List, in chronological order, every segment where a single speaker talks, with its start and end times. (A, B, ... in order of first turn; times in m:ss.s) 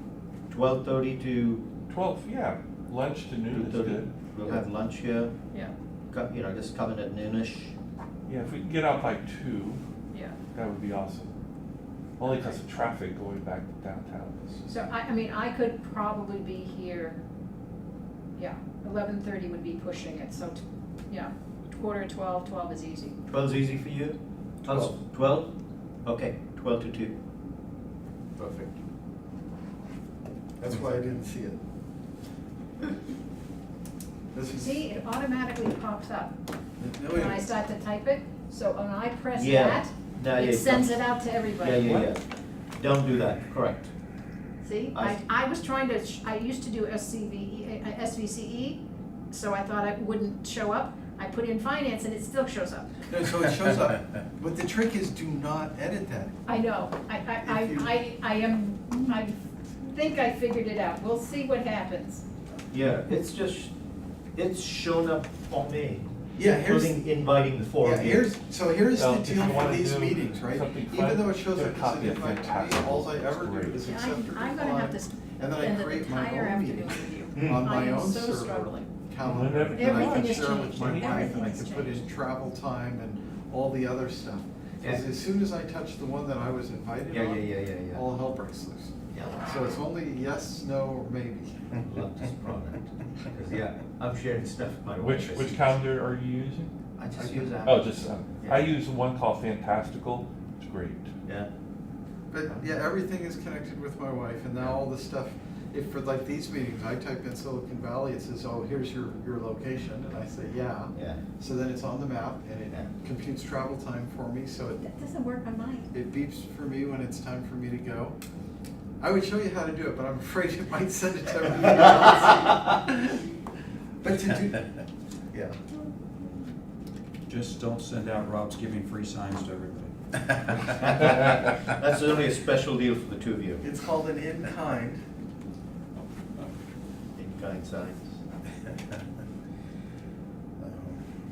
0:00.5-0:01.6 A
0:01.9-0:04.1 B
0:03.5-0:05.3 A
0:06.1-0:07.7 A
0:08.3-0:09.8 B
0:10.1-0:10.4 C
0:10.5-0:11.3 B
0:12.2-0:14.6 B
0:14.7-0:17.2 C
0:18.4-0:23.2 C
0:23.3-0:25.5 A
0:24.7-0:25.0 D
0:26.0-0:27.2 A
0:30.6-0:31.6 D
0:34.3-0:34.9 D
0:34.6-0:36.4 C
0:36.8-0:37.4 D
0:37.1-0:42.1 C
0:39.4-0:42.2 A
0:42.8-0:43.9 A
0:44.6-0:52.9 C
0:44.9-0:45.2 A
0:53.1-0:56.4 D
0:56.5-1:02.2 C
0:57.4-0:57.9 D
1:02.7-1:03.7 A
1:04.4-1:08.3 A
1:06.4-1:07.1 D
1:07.8-1:31.6 D
1:08.9-1:13.8 B
1:13.8-1:18.9 C
1:17.4-1:17.6 A
1:19.3-1:21.3 B
1:19.7-1:22.1 C
1:27.1-1:28.0 A
1:29.1-1:29.4 A
1:31.8-1:35.8 A
1:35.0-1:36.7 B
1:37.0-1:38.7 A
1:37.2-1:37.6 D
1:37.6-1:41.1 B
1:41.2-1:41.5 A
1:42.3-1:54.8 D
1:50.9-1:51.2 A
1:54.8-1:55.9 C
1:55.9-1:58.2 D
1:59.0-2:03.2 D
2:04.0-2:04.7 D
2:05.3-2:05.6 D
2:07.3-2:09.9 E
2:10.8-2:13.6 A
2:13.6-2:15.0 D
2:17.2-2:18.2 A
2:20.6-2:21.0 D